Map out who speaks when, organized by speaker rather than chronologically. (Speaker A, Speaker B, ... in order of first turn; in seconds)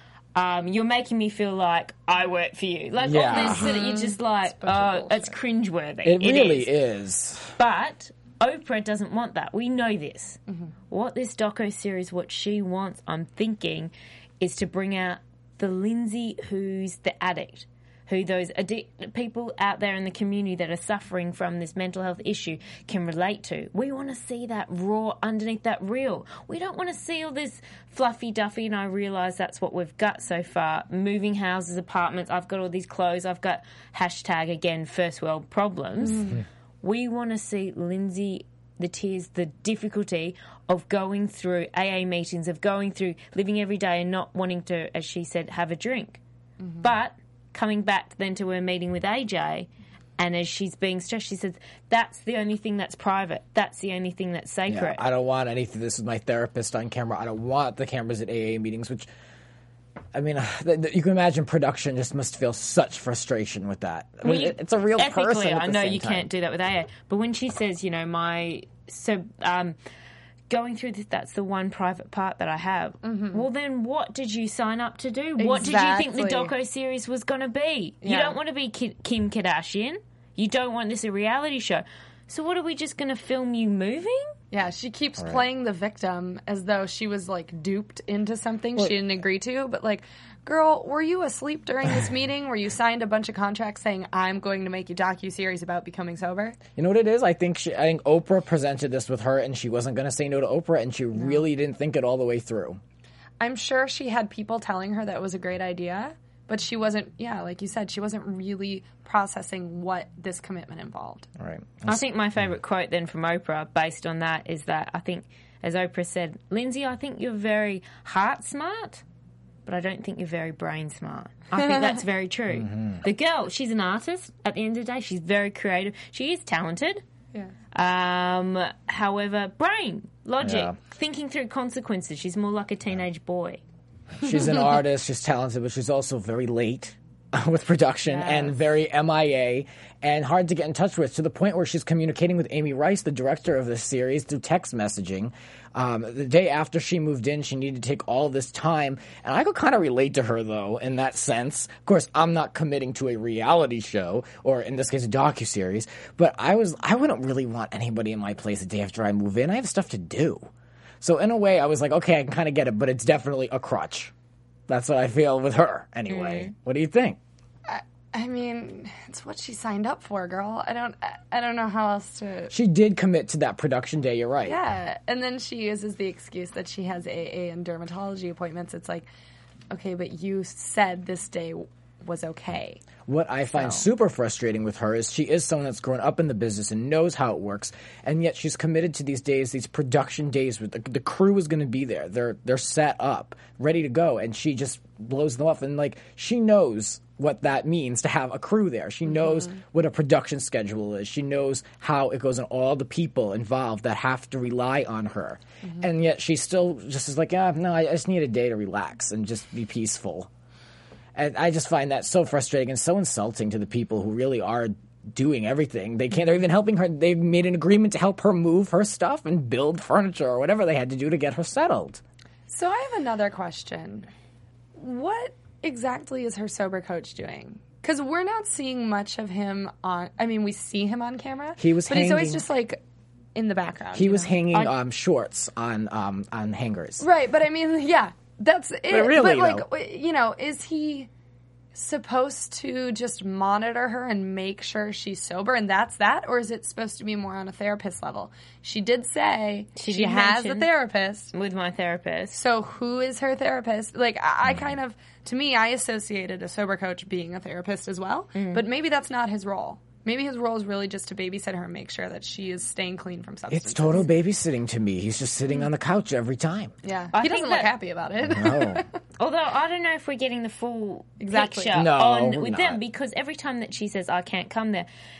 Speaker A: 0.3-6.7, 7.6-10.4, 10.9-46.2, 46.8-55.0, 64.2-69.8, 70.5-84.3, 111.9-119.0, 119.7-127.0, 127.7-133.6, 138.1-138.6, 166.1-166.5, 249.8-250.7, 251.3-252.4, 258.4-258.6, 267.1-267.7, 269.2-274.9
Speaker B: 3.0-3.7, 6.0-7.6, 54.7-59.1, 60.1-66.3, 96.8-102.8, 111.4-112.0, 122.6-123.0, 130.4-130.8, 134.2-160.5, 161.0-164.1, 164.7-167.2, 172.5-174.6, 183.1-210.3, 211.2-222.0, 231.6-232.4, 233.9-237.1, 238.9-239.7, 263.5-266.7, 268.3-268.8, 271.7-272.8
Speaker C: 3.2-5.4, 36.1-36.4, 73.0-73.4, 75.4-76.5, 78.0-78.4, 84.5-96.6, 103.4-111.3, 167.7-172.5, 174.4-179.1, 179.7-182.8, 183.6-183.8, 199.2-199.6, 222.5-224.1, 224.8-232.8, 233.3-234.4, 237.0-241.1, 241.7-251.3, 252.3-264.1, 266.8-268.9, 271.2-271.8